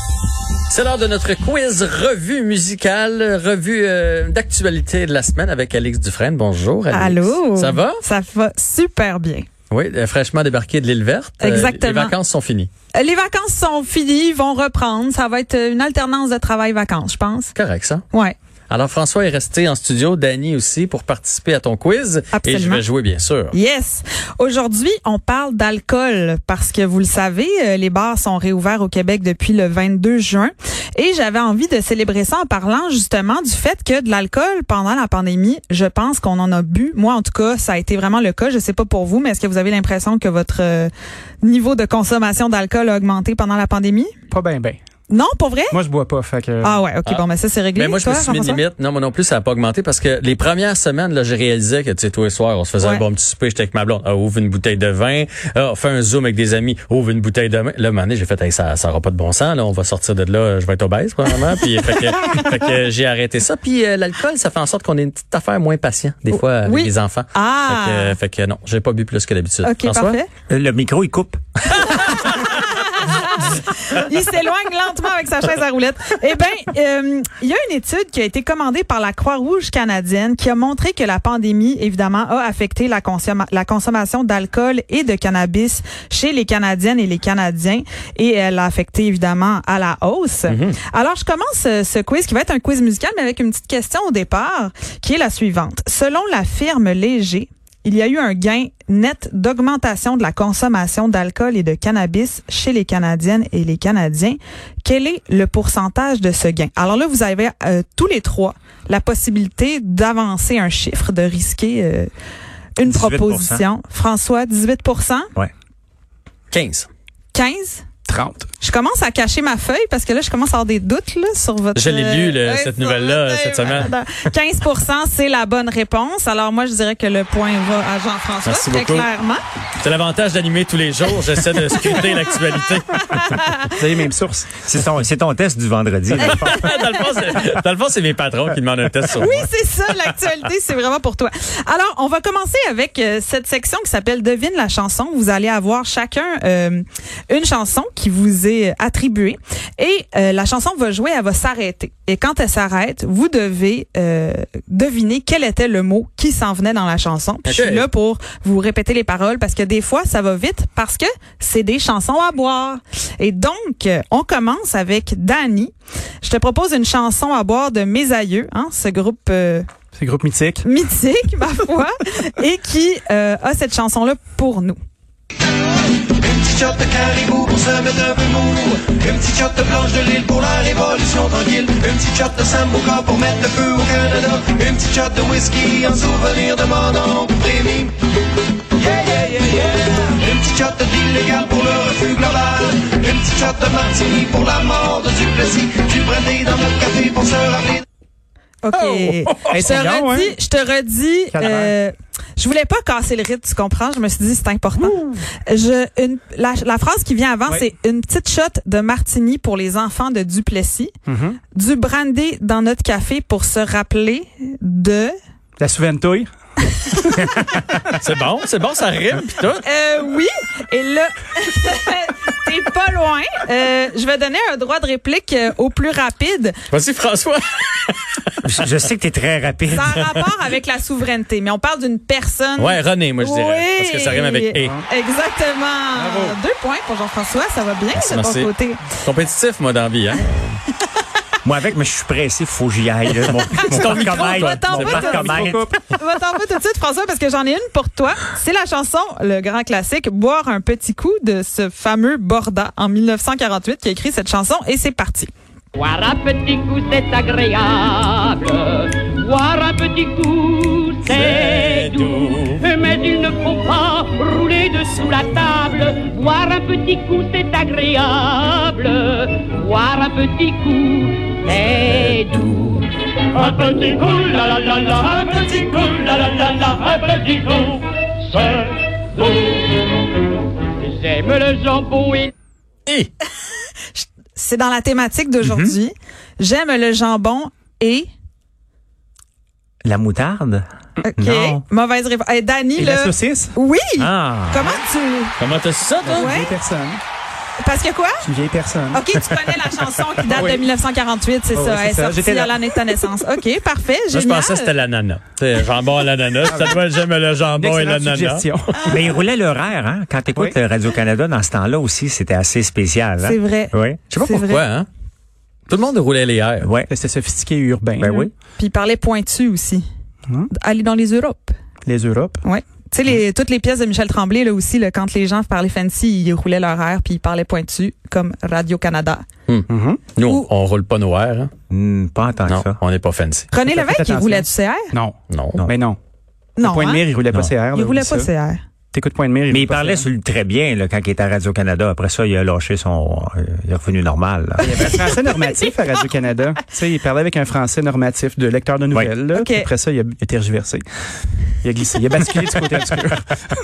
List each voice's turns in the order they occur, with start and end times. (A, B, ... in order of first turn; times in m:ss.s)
0:00.7-0:08.0 A
0:06.9-0:09.5 B
0:09.7-0:12.7 A
0:11.4-0:12.2 B
0:13.0-0:17.5 B
0:17.6-0:18.0 A
0:18.7-0:23.5 A
0:22.3-0:22.8 B
0:23.5-0:40.9 B
0:41.4-0:44.1 B
0:44.3-0:44.8 C
0:45.1-0:45.8 B
0:45.7-0:46.8 C
0:46.6-0:48.6 B
0:47.1-1:10.2 A
1:06.3-1:08.2 B
1:09.6-1:10.3 B
1:10.5-1:11.7 D
1:11.7-1:52.1 B
1:30.5-1:30.8 A
1:52.8-1:55.3 B
1:52.8-1:53.6 D
1:56.5-1:56.9 A
1:57.3-1:57.8 B
1:58.1-1:58.5 C
1:58.6-2:09.4 B
2:01.8-2:03.9 A
2:08.4-2:09.1 A
2:09.8-2:13.4 A
2:13.0-2:13.7 B
2:13.8-2:14.6 C
2:14.6-2:16.6 D
2:16.2-2:19.5 A
2:16.4-2:16.9 B
2:19.2-2:49.7 B
2:37.4-2:37.9 A
2:50.0-2:50.6 C
2:50.6-2:54.8 B
2:56.2-3:07.9 E
3:09.0-3:17.8 E
3:18.6-3:30.9 B
3:18.7-3:19.6 A
3:19.5-3:20.4 C
3:21.3-3:21.7 C
3:31.1-3:31.4 C
3:31.5-3:35.1 B
3:35.6-3:36.3 C
3:37.1-3:37.9 C
3:37.9-3:39.6 A
3:39.6-3:46.6 B
3:46.7-3:48.3 A
3:48.4-3:50.0 D
3:49.7-3:58.9 B
3:52.6-3:54.8 A
3:57.9-4:00.6 A
4:01.4-4:05.7 D
4:03.5-4:15.3 B
4:03.7-4:05.0 A
4:05.0-4:05.8 C
4:15.8-4:39.7 F
4:21.1-4:22.6 A
4:40.8-4:42.3 F
4:44.0-4:48.1 B
4:45.4-4:45.8 D
4:49.8-4:50.6 D
4:51.0-4:55.4 B
4:51.2-4:51.6 D
4:52.8-4:53.6 C
4:54.0-4:54.8 D
4:55.4-4:56.3 A
4:56.0-4:57.0 C
4:56.1-4:56.5 B
4:57.6-4:58.2 B
4:58.2-4:59.0 C
4:58.9-5:04.7 B
5:00.3-5:00.6 C
5:01.5-5:02.6 C
5:04.1-5:08.5 A
5:06.4-5:06.8 C
5:07.6-5:09.2 C
5:08.9-5:14.0 D
5:13.2-5:14.6 B
5:14.1-5:14.9 A
5:15.7-5:16.7 A
5:16.6-5:16.9 D
5:16.9-5:18.2 C
5:18.0-5:18.3 D
5:18.1-5:19.8 B
5:20.6-5:21.5 B
5:21.9-5:22.4 C
5:22.4-5:29.2 B
5:29.5-5:31.5 A
5:29.7-5:30.1 C
5:31.7-5:32.8 D
5:32.5-5:33.5 A
5:33.5-5:34.9 B
5:33.6-5:36.0 C
5:35.3-5:35.6 A
5:36.6-5:37.0 B
5:36.6-5:38.3 C
5:37.7-5:38.6 B
5:38.9-5:40.1 C
5:39.5-5:44.8 D
5:44.6-5:50.8 C
5:44.6-5:45.7 B
5:49.3-5:49.7 B
5:51.6-5:53.3 C